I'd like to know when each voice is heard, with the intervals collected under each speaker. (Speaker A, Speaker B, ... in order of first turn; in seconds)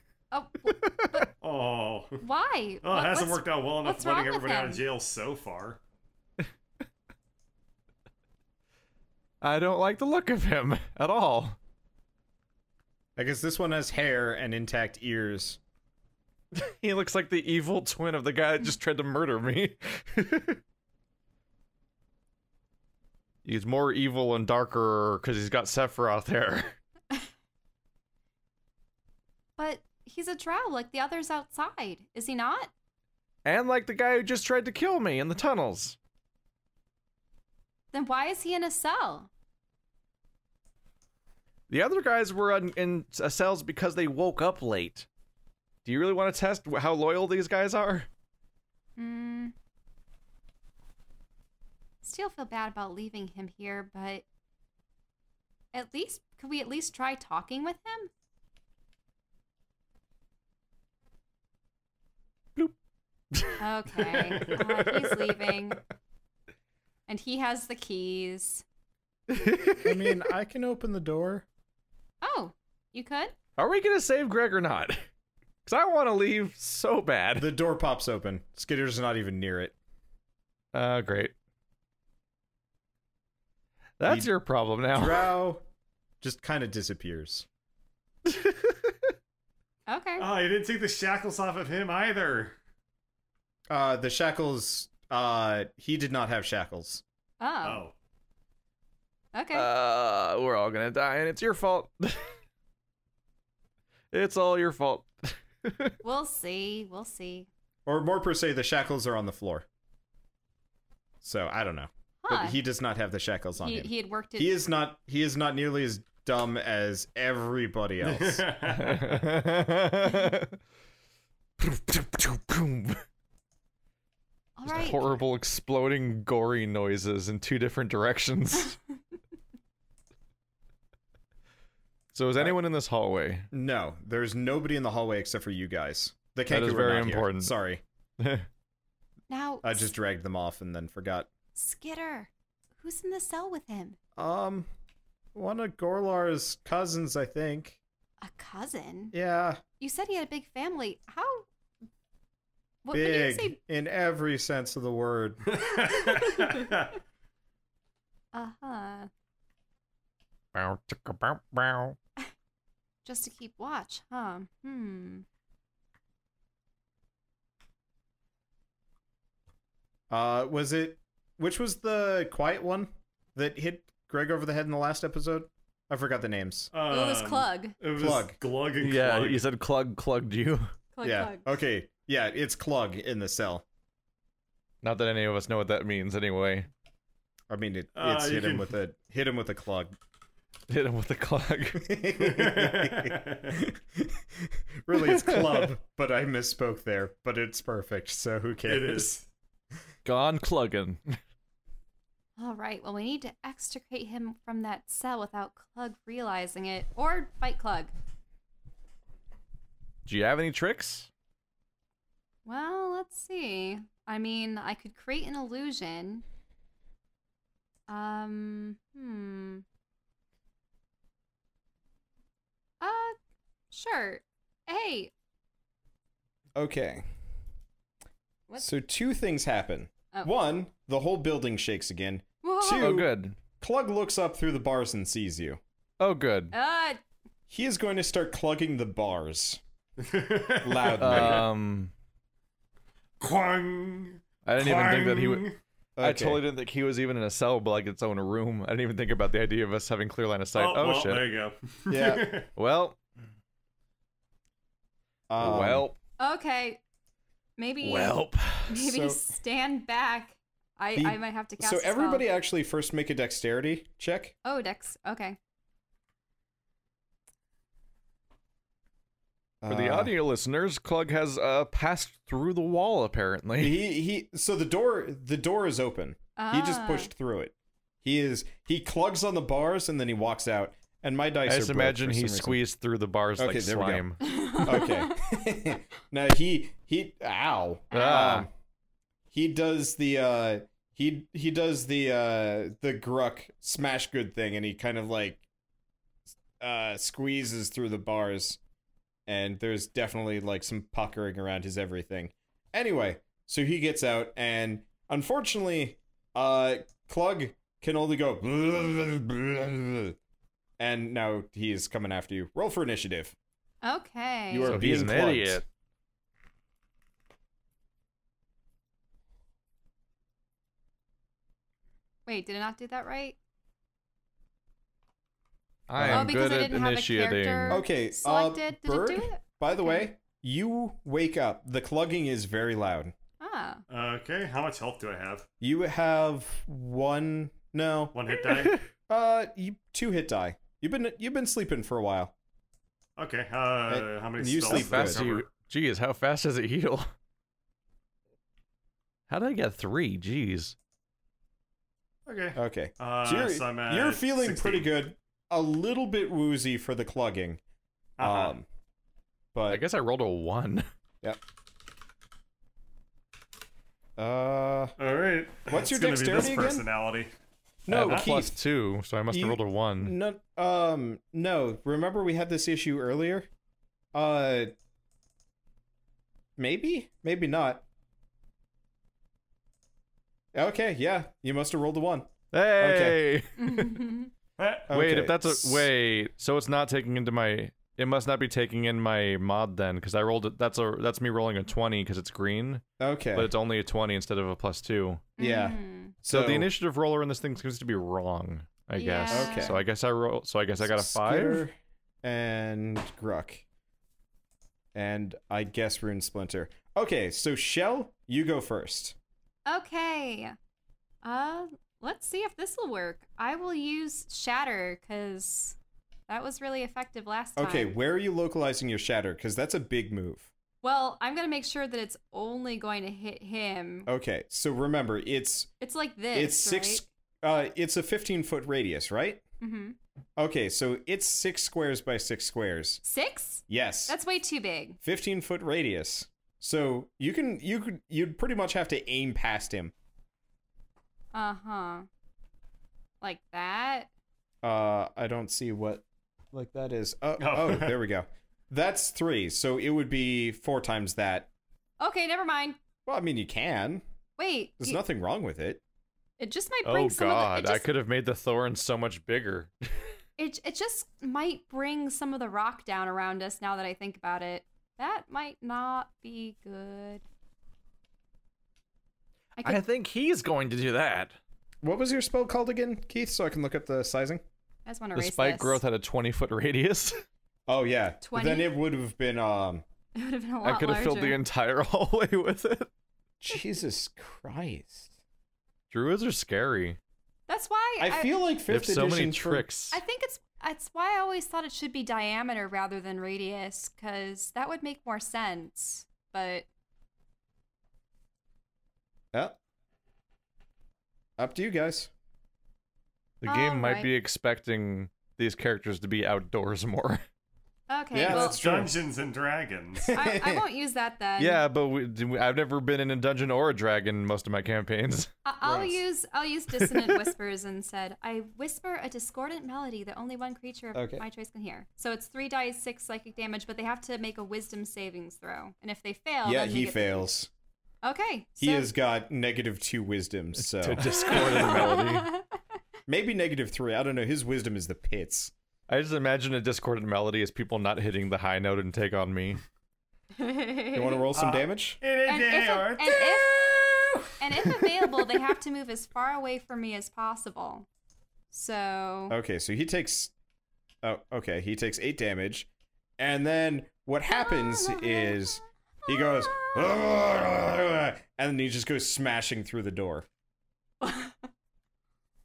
Speaker A: 0.3-1.3, 2.2-4.8, 29.6-32.7, 37.9-39.3, 49.0-49.5, 52.0-54.2, 55.7-58.1, 63.6-65.8, 67.1-68.6, 72.2-73.4, 89.9-90.3, 97.4-97.8, 99.3-99.7, 106.0-107.5, 112.2-112.6, 113.6-114.6, 124.6-125.2, 139.3-139.9, 141.6-144.0, 148.2-149.1, 149.8-151.5, 152.8-153.6, 158.3-159.1, 163.1-165.2, 176.9-177.8, 180.9-181.5, 202.4-207.9, 212.4-216.2, 217.9-219.6, 222.8-223.2, 223.7-225.1, 232.4-233.0, 236.5-237.0, 256.2-256.8, 257.6-262.3, 264.4-265.4, 276.4-277.1, 284.2-285.2, 287.9-288.4, 313.8-314.8, 322.3-323.4, 326.1-330.1, 333.4-333.8, 383.6-384.3, 395.4-396.1, 399.0-399.8, 409.7-410.6, 411.2-415.8, 416.3-417.9, 420.8-424.1, 425.8-427.0, 429.6-430.0, 433.1-435.0, 441.3-442.1, 443.2-444.1, 452.0-452.8, 454.4-455.0, 456.4-457.8, 460.4-467.2, 469.6-469.8, 474.9-475.8, 478.2-478.7, 480.1-481.4, 487.5-488.4, 489.9-496.7, 503.4-504.1, 507.9-508.6, 510.1-511.6, 515.5-527.3, 528.0-528.9, 531.1-532.6, 540.4-541.3, 542.3-543.7, 544.4-547.9, 548.5-549.4, 554.3-556.9, 561.0-561.4
Speaker B: 0.7-1.3, 9.4-11.6, 16.6-20.6, 23.4-26.8, 33.5-36.0, 41.7-45.1, 45.8-48.1, 63.3-65.5, 69.3-70.2, 73.6-75.1, 75.7-77.5, 80.7-81.3, 84.0-85.3, 88.3-89.0, 99.5-102.3, 104.1-106.0, 118.7-120.6, 121.6-123.0, 124.7-128.8, 132.1-133.5, 136.5-137.5, 138.2-138.5, 160.6-162.0, 178.8-180.7, 184.8-186.7, 190.7-191.9, 194.9-195.7, 200.1-201.2, 210.1-211.1, 232.8-233.4, 236.0-236.5, 241.0-241.9, 244.4-245.4, 246.0-251.3, 252.6-253.0, 255.4-256.0, 257.8-258.7, 269.7-273.8, 281.5-284.2, 287.9-288.5, 314.7-315.6, 325.9-327.8, 344.7-347.1, 349.3-350.8, 359.7-360.9, 367.9-370.1, 382.5-384.0, 384.9-395.3, 396.2-401.6, 456.9-460.1, 469.6-471.4, 475.2-477.2, 480.6-482.9, 485.9-487.0, 488.7-490.0, 503.4-507.2, 511.4-515.3, 516.8-517.2, 530.6-532.3, 535.9-539.6
Speaker C: 1.4-2.2, 2.8-5.8, 90.2-92.5, 97.6-97.9, 118.0-119.3, 155.5-156.9, 176.7-179.4, 187.9-188.7, 192.1-193.6, 198.7-199.3, 240.0-241.5, 243.2-245.6, 250.6-252.5, 333.9-335.5, 338.1-338.8, 343.2-345.5, 352.3-354.9, 358.2-358.6, 365.0-367.3, 384.6-384.9, 447.4-448.0, 508.2-510.1, 541.4-544.8
Speaker D: 13.2-15.6, 69.8-71.5, 77.4-79.8, 84.0-84.3, 84.9-85.6, 86.2-87.5, 93.7-97.0, 107.9-109.7, 111.2-118.4, 133.5-137.8, 139.6-141.3, 144.2-144.7, 145.3-147.8, 149.1-149.6, 152.9-155.6, 170.1-176.7, 178.0-178.3, 181.0-183.6, 187.5-189.9, 191.8-199.1, 226.6-227.1, 228.6-235.6, 237.5-239.6, 240.6-241.5, 246.0-246.4, 251.9-252.3, 255.3-255.9, 258.8-259.2, 260.9-264.4, 269.6-270.1, 273.6-282.6, 283.4-288.5, 289.3-295.4, 296.6-298.6, 299.3-310.2, 310.8-313.4, 314.5-315.6, 326.0-326.3, 327.7-333.1, 335.6-338.2, 339.1-342.3, 343.9-345.2, 352.6-357.6, 358.2-358.7, 359.5-359.8, 364.2-365.0, 365.7-366.9, 367.9-368.6, 369.3-373.5, 374.1-374.7, 376.6-377.9, 380.5-383.2, 384.9-385.9, 393.0-393.5, 395.4-396.7, 399.3-399.8, 400.8-403.6, 404.9-409.2, 417.6-420.5, 424.1-425.7, 426.3-429.4, 430.4-433.0, 433.7-434.2, 435.0-439.9, 444.6-451.5, 453.1-454.0, 454.8-455.8, 471.8-474.4, 477.7-479.8, 483.4-485.1, 488.0-489.7, 501.4-502.1, 508.1-508.9, 510.0-510.6, 515.6-516.0, 521.0-521.2, 526.4-527.5, 528.6-531.5, 533.1-535.5, 540.9-542.0, 549.3-550.3, 551.0-552.7, 553.2-560.3